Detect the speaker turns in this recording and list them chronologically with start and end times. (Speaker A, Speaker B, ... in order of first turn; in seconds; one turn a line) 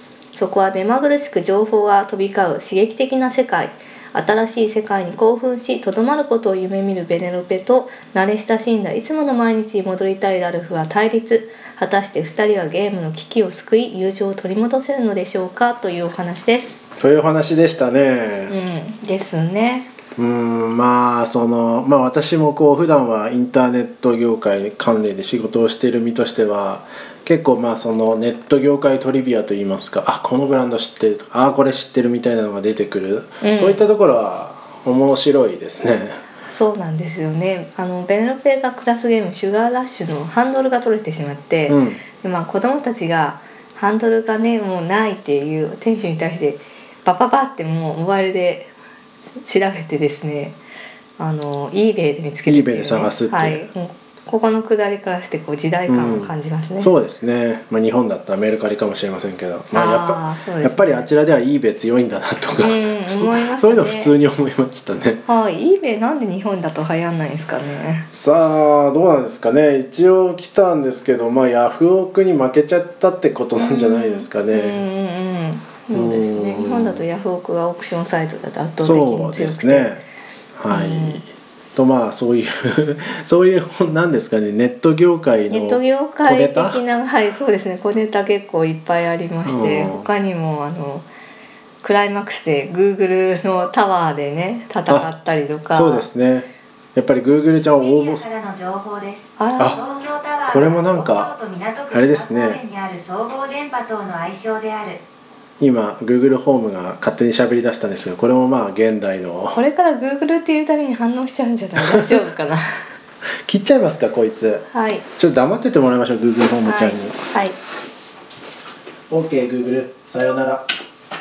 Speaker A: 0.3-16.8
Speaker B: 17.0-18.6
Speaker A: 18.5-19.9
Speaker B: 20.2-36.2
Speaker A: 33.4-33.8
Speaker A: 36.5-48.7
Speaker B: 41.7-42.0
Speaker A: 49.4-50.6
Speaker A: 51.2-56.9
Speaker B: 52.5-53.6
Speaker B: 55.9-65.2
Speaker A: 59.7-61.0
Speaker A: 62.6-64.1
Speaker A: 65.3-68.1
Speaker B: 68.1-74.8
Speaker A: 73.6-79.9
Speaker B: 75.9-77.0
Speaker B: 78.8-80.0
Speaker B: 80.6-86.8
Speaker A: 80.7-81.2
Speaker A: 85.5-91.1
Speaker B: 89.4-90.1
Speaker A: 91.8-96.1
Speaker B: 95.7-98.2
Speaker C: 97.8-105.0
Speaker A: 99.4-99.8
Speaker B: 100.5-101.3
Speaker B: 101.9-102.6
Speaker B: 105.6-109.6
Speaker A: 109.5-112.7
Speaker B: 113.5-117.2
Speaker A: 114.7-115.0
Speaker A: 116.7-117.6
Speaker B: 119.1-120.7